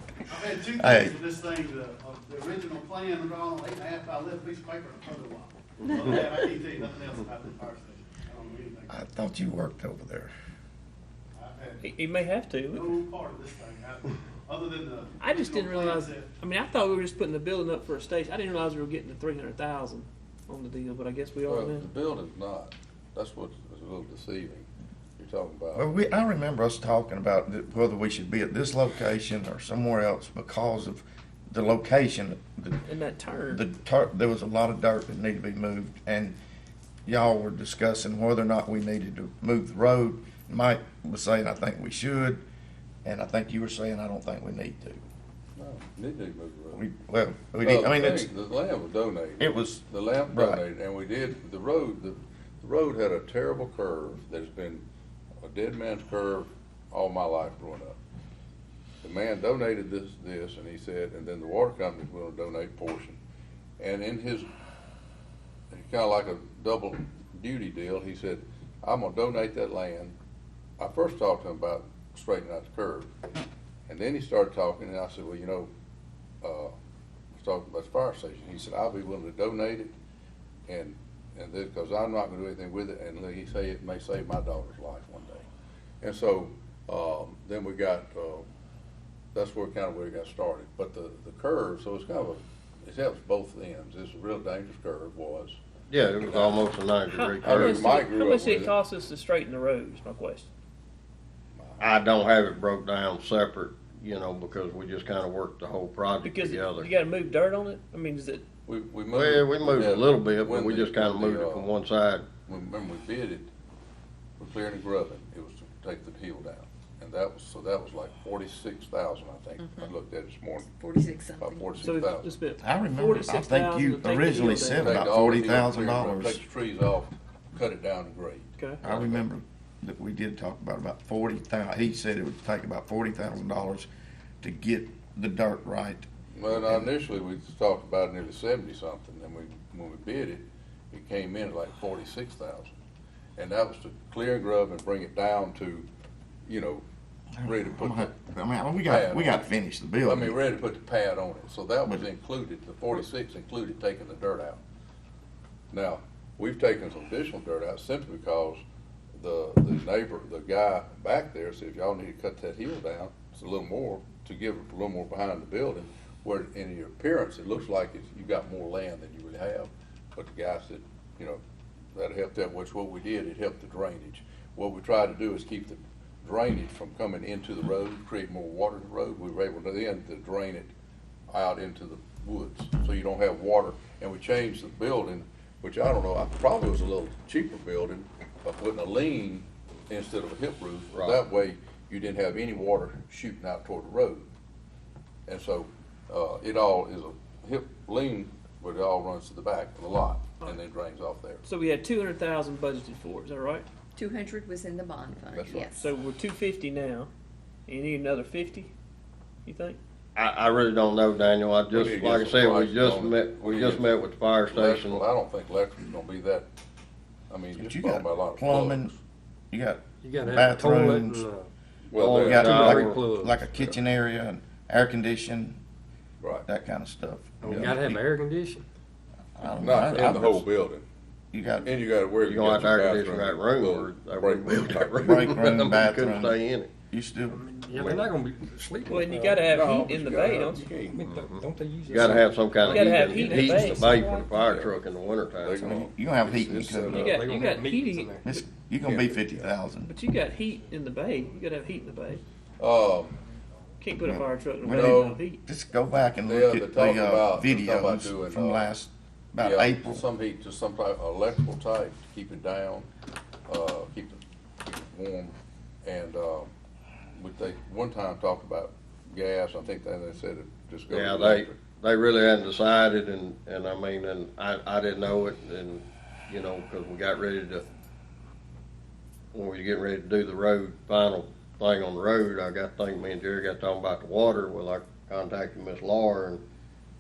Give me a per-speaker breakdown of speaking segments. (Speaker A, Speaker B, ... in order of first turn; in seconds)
Speaker A: 0.3-8.9, 11.3-11.9, 12.7-16.3
Speaker B: 0.7-1.2, 8.9-10.3, 25.8-32.8, 33.5-36.4, 37.1-42.4, 43.0-45.0, 46.7-48.3, 49.4-50.6, 122.6-126.4, 128.8-133.9, 134.4-136.9, 147.4-150.4, 217.6-218.9, 219.5-221.3, 222.2-225.6, 226.4-228.0, 229.4-230.5, 231.3-231.8, 235.0-236.4, 236.9-238.1, 245.6-247.3, 248.2-249.9, 254.0-260.1
Speaker C: 11.8-12.9, 15.2-21.9, 32.9-33.6, 97.1-100.5, 106.2-108.5, 121.8-125.0, 201.4-203.7, 205.7-207.1, 207.7-208.7, 209.4-209.8, 238.8-240.8, 242.6-244.0, 246.9-248.2, 249.8-252.2, 253.8-255.4
Speaker D: 21.5-24.7, 25.2-25.9, 45.6-46.8, 47.6-54.9, 55.4-58.0, 59.0-63.2, 63.8-64.5, 65.7-70.2, 70.8-73.1, 73.9-75.7, 76.4-76.7, 77.4-79.9, 80.7-85.5, 86.0-88.5, 89.3-95.6, 96.3-96.6, 97.4-98.8, 101.6-101.9, 108.7-111.7, 112.5-113.5, 114.4-120.7, 121.4-122.4, 124.8-129.3, 136.3-142.7, 143.4-145.9, 146.5-146.8, 147.4-148.2, 148.8-149.5, 150.1-154.6, 155.7-158.6, 159.2-171.4, 171.9-180.7, 181.3-194.3, 195.3-201.4, 205.3-205.7, 211.7-216.5, 217.3-219.0, 221.9-222.5, 226.2-226.5, 229.6-230.9, 231.6-235.2, 239.5-241.0, 244.4-244.8, 245.4-245.9, 248.8-249.5, 252.6-253.2, 254.7-255.2, 256.3-258.7, 259.4-262.9, 263.5-266.5, 267.2-271.6
Speaker E: 95.9-97.9, 101.8-106.9, 109.1-112.2, 190.9-191.2, 210.2-215.0, 221.9-223.0, 232.2-236.7, 241.1-245.6, 270.9-277.6, 279.3-286.4
Speaker F: 119.6-119.9, 120.7-121.8, 204.0-205.8
Speaker G: 220.0-221.5, 222.2-223.5, 227.4-228.7, 237.3-239.5, 240.9-244.4, 246.3-248.3